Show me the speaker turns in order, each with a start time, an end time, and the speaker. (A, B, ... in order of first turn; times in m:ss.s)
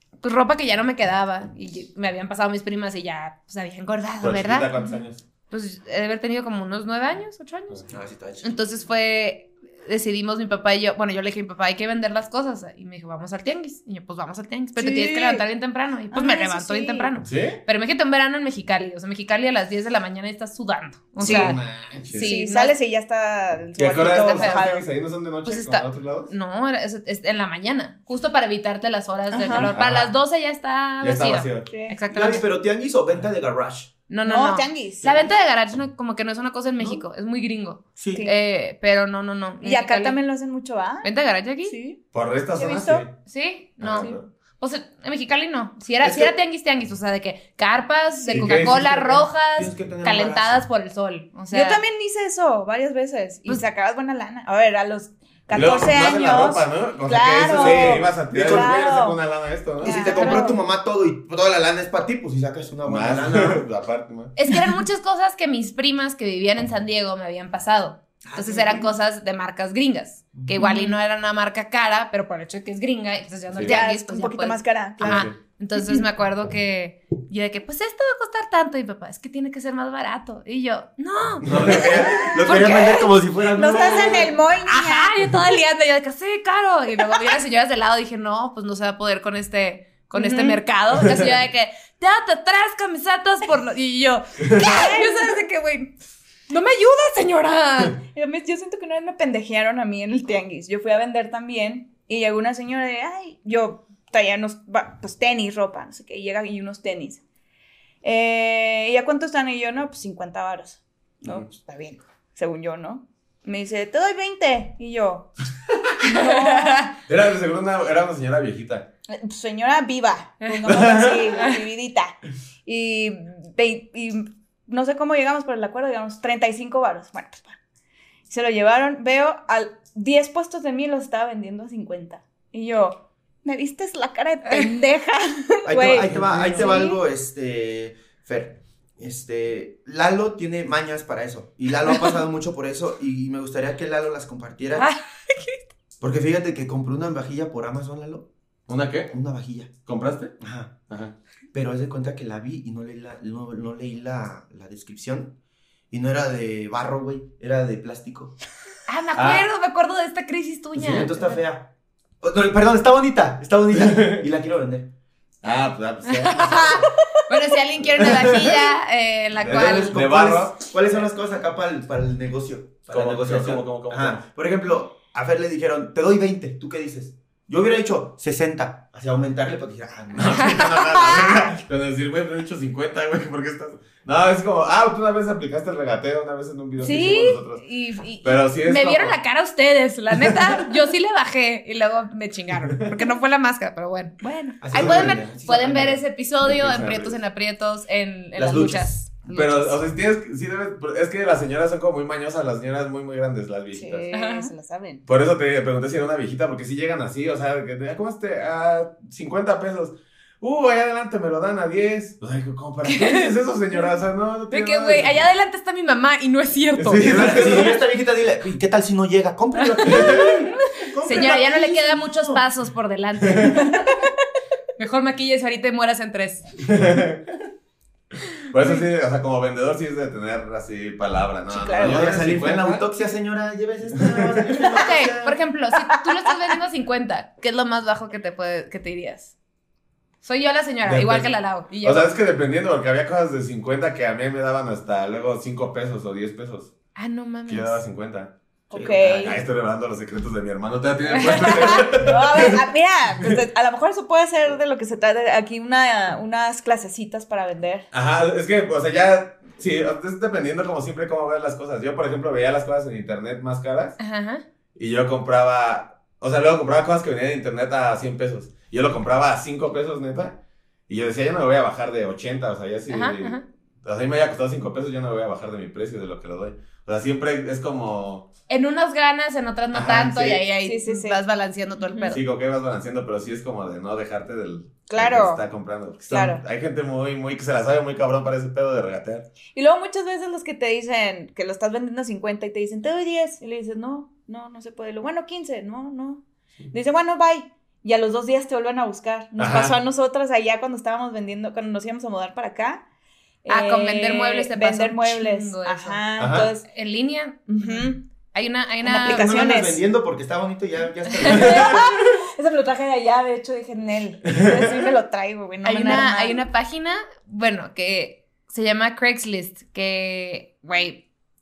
0:00.2-0:04.7 A
0:04.2-0:05.2 B
0:05.5-0:22.8 A
0:07.9-0:08.6 C
0:14.8-0:15.4 D
0:16.1-0:17.1 D
0:17.2-0:17.6 B
0:21.2-0:22.3 B
0:21.2-0:21.6 D
0:22.2-0:24.8 D
0:23.8-0:26.3 B
0:25.4-0:32.4 A
0:29.3-0:29.7 D
0:29.5-0:30.1 B
0:31.0-0:31.7 B
0:31.7-0:32.0 D
0:32.1-0:33.9 C
0:34.1-0:40.2 A
0:34.2-0:35.1 D
0:35.0-0:35.3 C
0:38.0-0:38.2 C
0:39.6-0:41.1 D
0:41.0-0:41.8 A
0:41.6-0:43.1 D
0:42.1-0:43.1 B
0:43.2-0:51.8 A
0:43.8-0:44.3 B
0:46.0-0:46.3 C
0:48.3-0:50.6 C
0:48.3-0:48.9 B
0:51.5-0:59.2 D
0:55.5-1:00.2 B
0:57.4-0:59.0 C
0:59.8-1:00.6 D
0:59.8-1:03.6 C
1:00.1-1:00.5 A
1:02.8-1:04.3 B
1:04.4-1:23.1 A
1:08.2-1:08.9 C
1:10.6-1:11.0 D
1:13.5-1:13.8 B
1:13.6-1:15.2 D
1:15.0-1:15.4 B
1:21.4-1:22.4 B
1:21.4-1:24.4 C
1:22.4-1:25.2 D
1:23.8-1:35.9 A
1:30.1-1:30.6 D
1:34.6-1:35.4 D
1:36.5-1:38.0 A
1:38.1-1:47.2 D
1:48.0-1:55.3 D
1:56.0-1:56.9 D
1:56.0-1:56.9 A
1:57.1-1:58.9 B
1:59.1-2:02.1 D
2:00.6-2:01.2 B
2:01.3-2:01.6 A
2:02.6-2:07.6 D
2:08.3-2:17.0 D
2:15.6-2:24.9 C
2:16.0-2:16.7 B
2:24.7-2:25.6 A
2:26.0-2:28.3 C
2:28.7-2:29.1 B
2:29.1-2:29.7 C
2:29.8-2:30.4 B
2:30.4-2:30.8 C
2:30.9-2:31.1 B
2:31.5-2:35.3 C
2:35.9-2:38.3 C
2:38.9-2:41.4 A
2:39.2-2:39.4 B
2:40.8-2:41.7 C
2:42.2-2:44.9 C
2:43.7-2:44.2 B
2:45.4-2:46.8 B
2:46.2-2:50.0 A
2:47.8-2:48.7 B
2:49.4-2:51.1 B
2:49.4-3:00.7 C
2:52.9-2:54.2 B
3:00.1-3:07.6 B
3:00.4-3:01.2 A
3:06.8-3:19.8 A
3:08.2-3:09.2 B
3:10.1-3:10.7 B
3:12.7-3:13.1 B
3:14.6-3:16.0 C
3:14.7-3:15.3 B
3:16.4-3:17.2 B
3:18.4-3:19.0 C
3:19.3-3:24.1 B
3:23.7-3:25.0 D
3:24.1-3:24.5 A
3:25.1-3:35.2 B
3:32.8-3:33.3 A
3:34.5-3:37.8 A
3:36.8-3:37.8 B
3:37.0-3:42.4 C
3:39.6-3:40.4 A
3:39.8-3:40.5 B
3:41.0-3:44.0 A
3:43.2-3:43.6 B
3:44.8-3:46.5 A
3:46.6-3:47.4 B
3:48.5-3:52.8 B
3:51.5-3:52.0 D
3:51.8-3:55.4 C
3:54.0-3:54.7 B
3:54.7-3:59.3 A
4:00.2-4:02.1 A
4:00.8-4:01.3 B
4:01.8-4:06.7 B
4:07.0-4:07.8 A
4:07.5-4:08.3 B
4:08.7-4:09.4 D
4:08.7-4:09.2 C
4:09.0-4:12.6 B
4:11.2-4:11.8 A
4:11.2-4:17.9 D
4:17.9-4:24.0 B
4:24.0-4:24.4 A
4:24.8-4:30.4 B
4:30.9-4:38.3 B
4:32.9-4:33.4 A
4:38.5-4:42.2 A
4:39.7-4:40.4 B
4:40.6-4:41.2 D
4:41.8-4:42.1 D
4:42.1-4:49.2 B
4:44.9-4:45.4 D
4:46.1-4:46.4 D
4:49.5-5:02.8 D
4:59.4-4:59.7 B
5:03.4-5:06.7 D
5:03.5-5:06.0 A
5:06.2-5:06.5 B
5:06.7-5:09.3 A
5:07.5-5:08.0 D
5:08.8-5:09.8 D
5:09.1-5:11.9 C
5:11.2-5:16.4 D
5:11.3-5:11.6 B
5:14.4-5:14.6 B
5:15.6-5:21.0 A